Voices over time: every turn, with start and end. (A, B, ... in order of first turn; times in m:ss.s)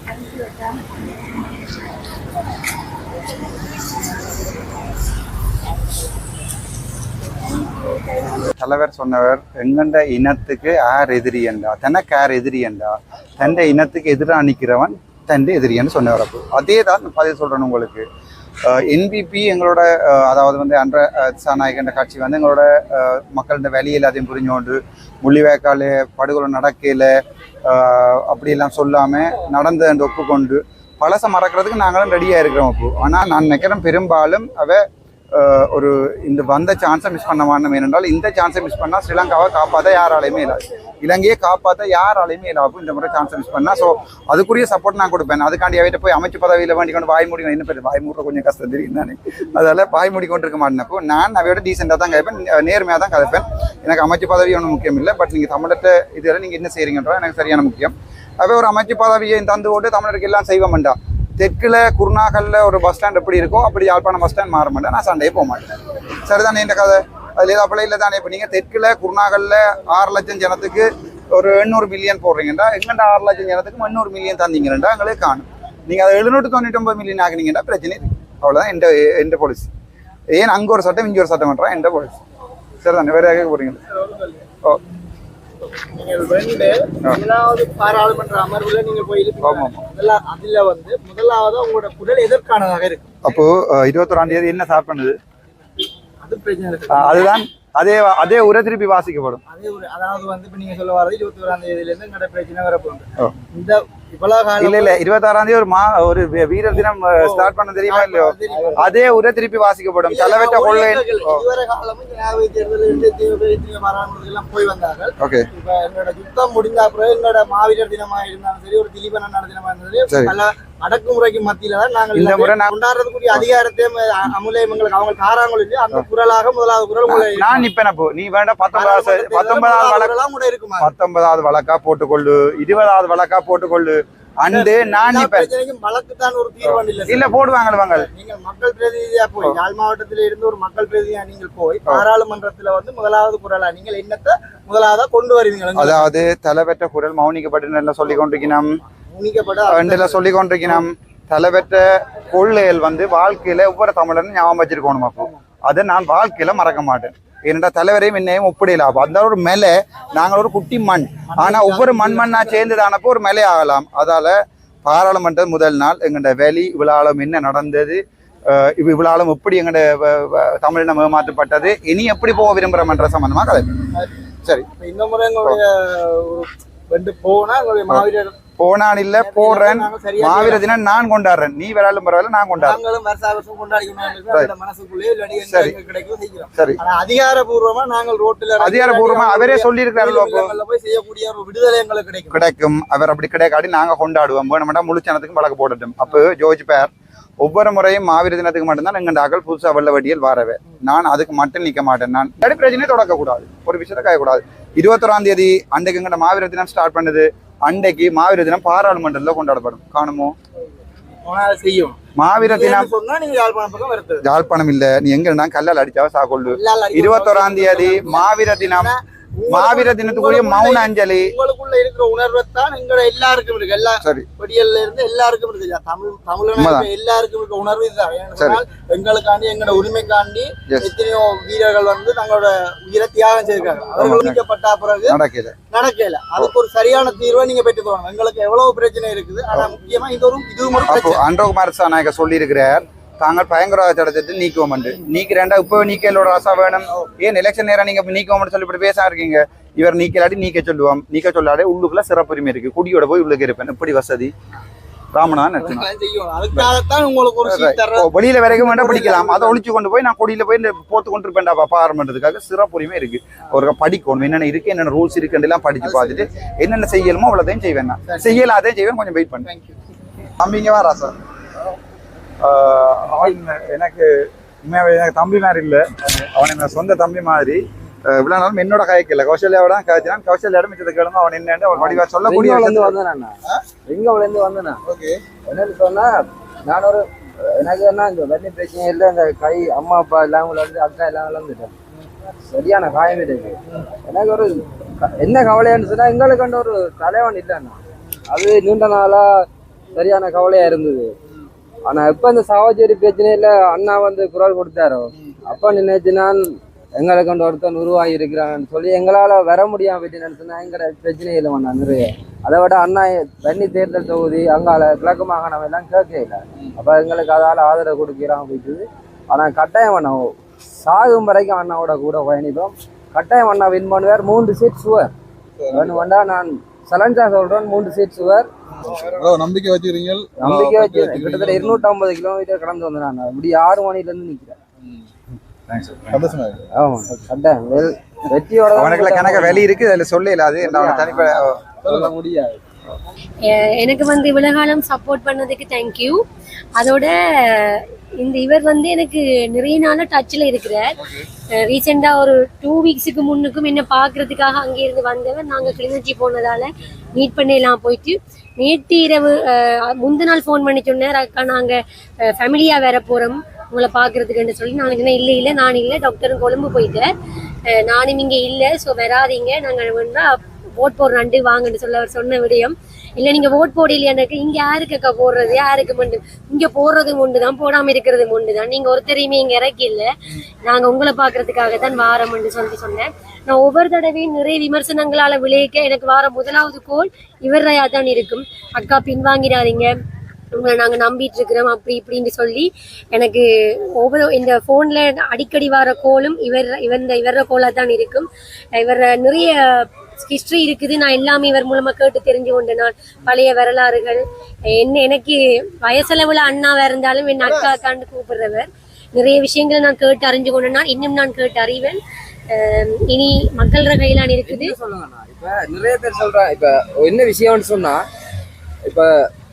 0:00.2-0:00.5 A
0:08.6-0:18.0 B
0:18.6-0:27.1 B
0:27.6-0:34.8 B
0:35.3-1:19.7 B
1:20.3-1:22.2 B
1:22.8-1:23.8 B
1:23.9-1:24.4 C
1:25.9-1:33.2 C
1:29.4-1:29.8 B
1:33.2-1:35.2 B
1:36.2-1:37.3 C
1:36.9-1:39.4 B
1:39.5-1:45.0 C
1:44.6-1:51.4 B
1:47.2-1:48.9 C
1:50.1-2:07.6 C
1:55.2-1:55.5 B
2:02.1-2:02.7 B
2:07.0-2:10.1 B
2:08.7-2:10.9 C
2:10.8-2:15.5 B
2:14.5-2:17.3 C
2:16.6-2:18.1 B
2:17.9-2:26.1 C
2:25.8-2:28.8 B
2:29.1-2:30.8 C
2:29.7-2:53.8 B
2:41.3-2:42.7 C
2:54.8-2:58.3 C
2:58.6-3:02.8 B
2:59.2-3:00.6 C
3:02.6-3:12.4 C
3:05.4-3:05.8 B
3:08.6-3:10.5 B
3:12.3-3:30.3 B
3:31.2-3:34.2 C
3:32.2-3:32.9 B
3:34.2-3:38.9 B
3:36.5-3:55.2 C
3:39.5-3:41.3 B
3:44.0-3:44.3 B
3:46.6-3:46.9 B
3:54.0-3:54.4 B
3:55.1-3:55.5 B
3:55.7-4:01.2 C
4:00.9-4:14.3 B
4:15.1-4:15.8 B
4:15.6-4:19.6 C
4:17.4-4:29.5 B
4:25.8-4:26.3 C
4:28.1-4:28.4 C
4:30.4-4:31.1 B
4:32.4-4:42.9 B
4:41.7-4:44.8 D
4:45.4-4:51.7 D
4:52.5-5:01.1 D
5:01.8-5:25.1 D
5:25.6-5:26.0 E
5:25.7-5:28.5 D
5:28.8-5:31.8 E
5:30.4-5:34.6 D
5:35.7-5:36.4 B
5:36.1-5:36.6 E
5:36.7-5:39.7 D
5:38.7-5:41.6 B
5:40.6-5:42.6 D
5:43.4-5:46.2 A
5:46.8-5:50.9 A
5:51.5-6:07.1 A
6:07.7-6:20.1 A
6:20.6-6:29.9 A
6:30.5-6:33.4 A
6:34.0-6:52.0 A
6:52.5-6:54.7 A
6:54.4-6:58.0 D
6:58.8-6:59.1 D